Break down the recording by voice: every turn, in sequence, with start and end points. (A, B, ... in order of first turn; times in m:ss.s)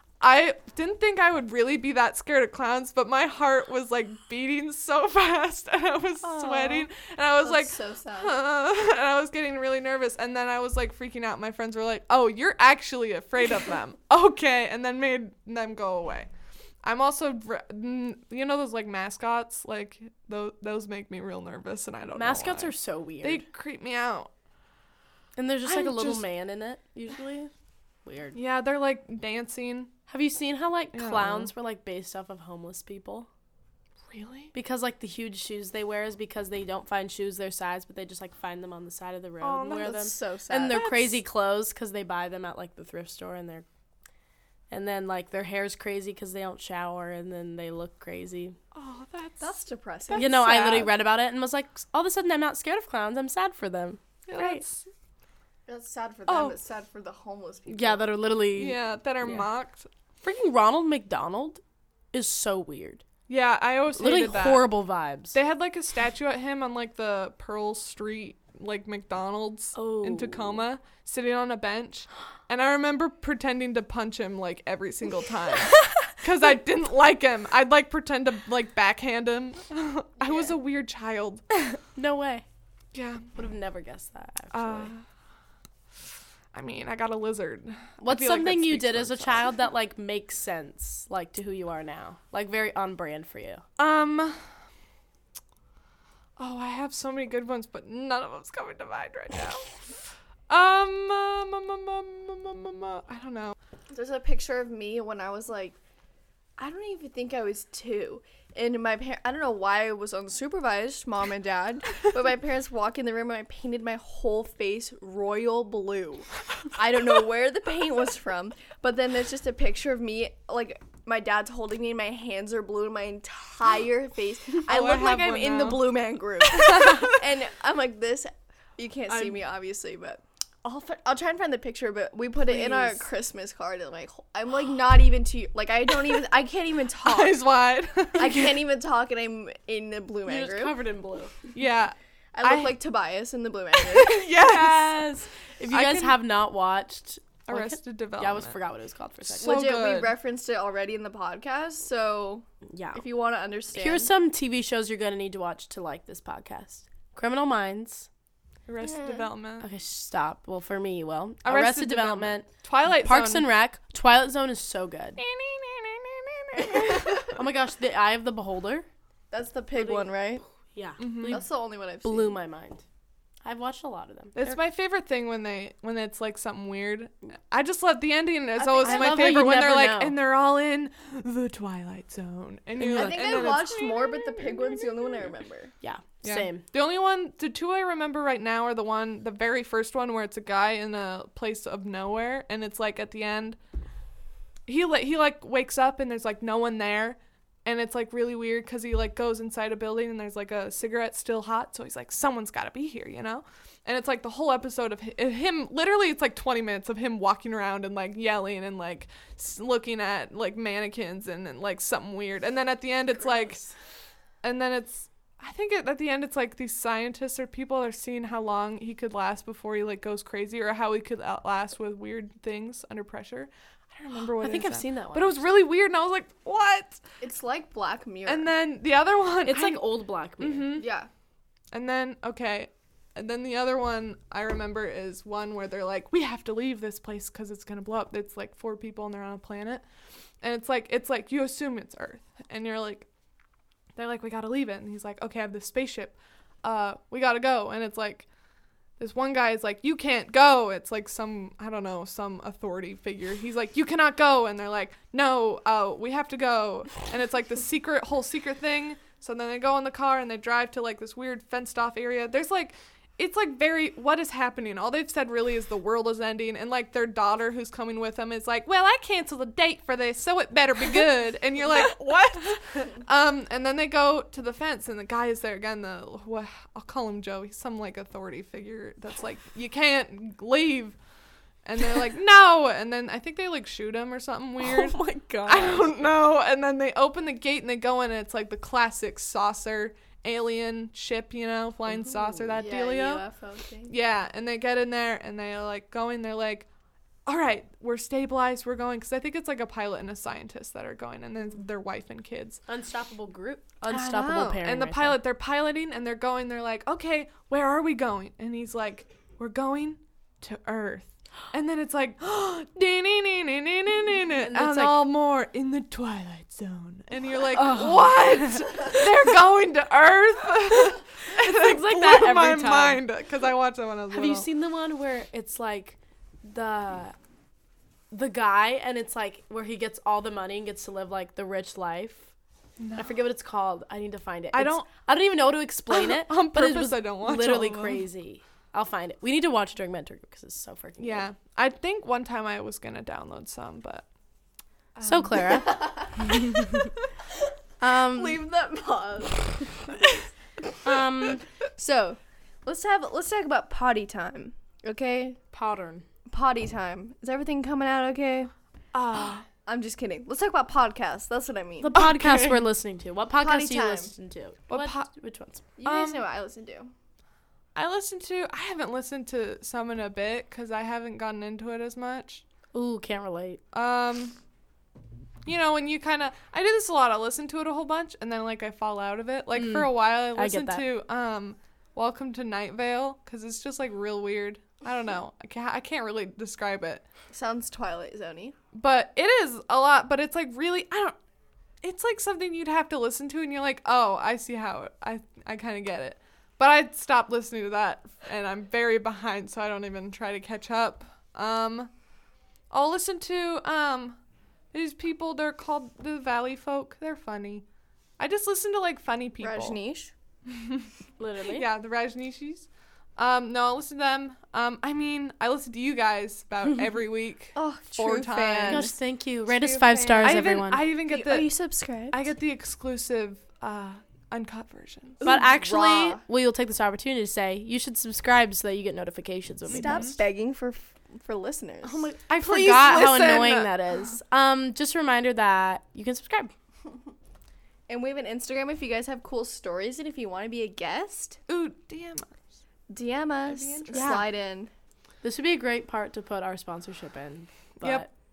0:00.2-0:16.3 A
0:07.4-0:08.4 B
0:16.8-0:22.7 A
0:22.1-0:23.4 C
0:23.2-0:24.3 A
0:25.4-0:27.5 C
0:25.6-0:26.2 A
0:28.0-0:28.4 C
0:28.3-0:29.9 A
0:30.1-0:33.3 C
0:30.9-0:31.5 A
0:34.1-0:34.5 A
0:34.5-0:43.6 C
0:39.4-0:40.0 A
0:39.7-0:40.9 B
0:40.7-0:41.0 A
0:44.7-0:48.6 C
0:48.7-0:50.9 A
0:49.4-0:50.8 B
0:50.1-0:54.6 C
0:54.3-0:54.9 A
0:55.7-0:58.1 B
0:56.3-0:56.6 A
0:57.7-0:59.5 C
0:58.6-0:59.9 A
1:00.2-1:01.6 C
1:02.1-1:03.0 C
1:03.3-1:04.7 A
1:04.0-1:05.4 C
1:05.3-1:21.8 A
1:09.7-1:10.6 C
1:20.2-1:20.5 B
1:22.0-1:22.4 C
1:22.9-1:23.3 A
1:23.3-1:24.9 C
1:24.5-1:25.0 A
1:26.5-1:29.5 A
1:28.0-1:33.6 C
1:33.8-1:34.4 A
1:36.4-1:39.8 A
1:40.5-1:43.6 A
1:43.9-1:45.8 B
1:46.6-2:17.4 B
2:04.6-2:05.9 A
2:06.4-2:07.2 A
2:09.1-2:09.4 C
2:12.4-2:13.0 C
2:17.0-2:18.6 A
2:18.2-2:20.8 B
2:20.2-2:21.4 C
2:21.5-2:22.8 A
2:22.3-2:24.2 B
2:23.8-2:25.1 A
2:24.3-2:29.7 C
2:25.7-2:26.2 A
2:27.5-2:28.6 A
2:29.3-2:30.1 A
2:29.4-2:34.1 B
2:32.7-2:33.0 C
2:33.7-2:38.1 C
2:38.6-2:39.6 A
2:38.8-2:39.3 B
2:39.6-2:45.2 C
2:41.4-2:43.5 A
2:45.2-2:47.3 A
2:46.6-2:48.9 C
2:49.3-2:50.4 B
2:49.8-2:50.1 C
2:50.7-2:51.4 C
2:51.0-2:51.4 A
2:51.2-2:52.4 B
2:52.0-2:52.8 C
2:53.4-2:54.6 C
2:54.4-3:05.0 A
2:58.6-2:59.6 B
2:58.8-3:00.2 C
3:02.8-3:03.7 C
3:02.8-3:05.7 B
3:05.8-3:06.6 C
3:06.2-3:13.6 A
3:14.7-3:33.6 A
3:34.4-3:47.0 A
3:44.4-3:45.4 C
3:47.2-3:48.5 B
3:48.2-3:49.8 A
3:49.4-3:50.8 C
3:50.4-3:50.9 A
3:50.8-3:51.1 B
3:51.7-3:59.8 A
4:00.4-4:03.1 A
4:04.0-4:08.2 A
4:09.0-4:41.0 A
4:41.6-4:53.2 A
4:44.6-4:45.9 C
4:52.5-4:53.9 B
4:53.9-4:56.6 A
4:57.2-5:02.6 A
5:02.7-5:05.2 C
5:03.9-5:24.5 A
5:14.4-5:15.0 C
5:17.5-5:19.1 C
5:21.4-5:23.0 C
5:24.1-5:27.1 C
5:28.1-5:32.3 C
5:32.8-5:33.1 A
5:33.0-5:41.2 C
5:34.5-5:34.9 A
5:35.9-5:38.0 A
5:41.0-5:44.0 A
5:45.0-5:45.8 A
5:45.0-5:46.9 C
5:45.5-5:46.3 B
5:47.8-5:48.4 C
5:47.9-5:50.3 B
5:50.8-5:51.4 C
5:51.7-5:55.4 B
5:55.5-5:56.0 C
5:56.3-5:58.5 B
5:58.9-5:59.4 A
5:59.6-6:01.9 B
6:01.8-6:05.6 C
6:01.9-6:02.6 A
6:03.4-6:04.1 B
6:04.7-6:05.1 A
6:05.8-6:06.9 B
6:05.8-6:06.2 A
6:07.8-6:12.4 A
6:12.7-6:13.6 C
6:13.7-6:14.3 A
6:15.4-6:27.0 A
6:19.5-6:20.8 C
6:27.3-6:28.6 B
6:28.7-6:31.2 A
6:31.8-6:41.9 A
6:42.7-6:44.2 A
6:44.7-6:47.6 A
6:48.2-6:49.8 A
6:49.4-6:50.1 B
6:50.5-6:50.9 A
6:51.2-6:51.6 C
6:51.5-6:58.9 A
6:57.5-6:58.9 B
6:58.7-7:00.8 C
6:59.5-7:02.2 B
7:00.2-7:01.5 A
7:02.1-7:05.2 A
7:05.2-7:06.2 B
7:05.2-7:10.2 C
7:09.7-7:12.1 B
7:09.7-7:10.2 A
7:11.8-7:16.5 C
7:12.4-7:13.8 A
7:17.9-7:21.4 B
7:21.5-7:22.3 A
7:22.9-7:24.7 B
7:23.5-7:24.2 A
7:23.9-7:24.2 C
7:25.2-7:28.1 C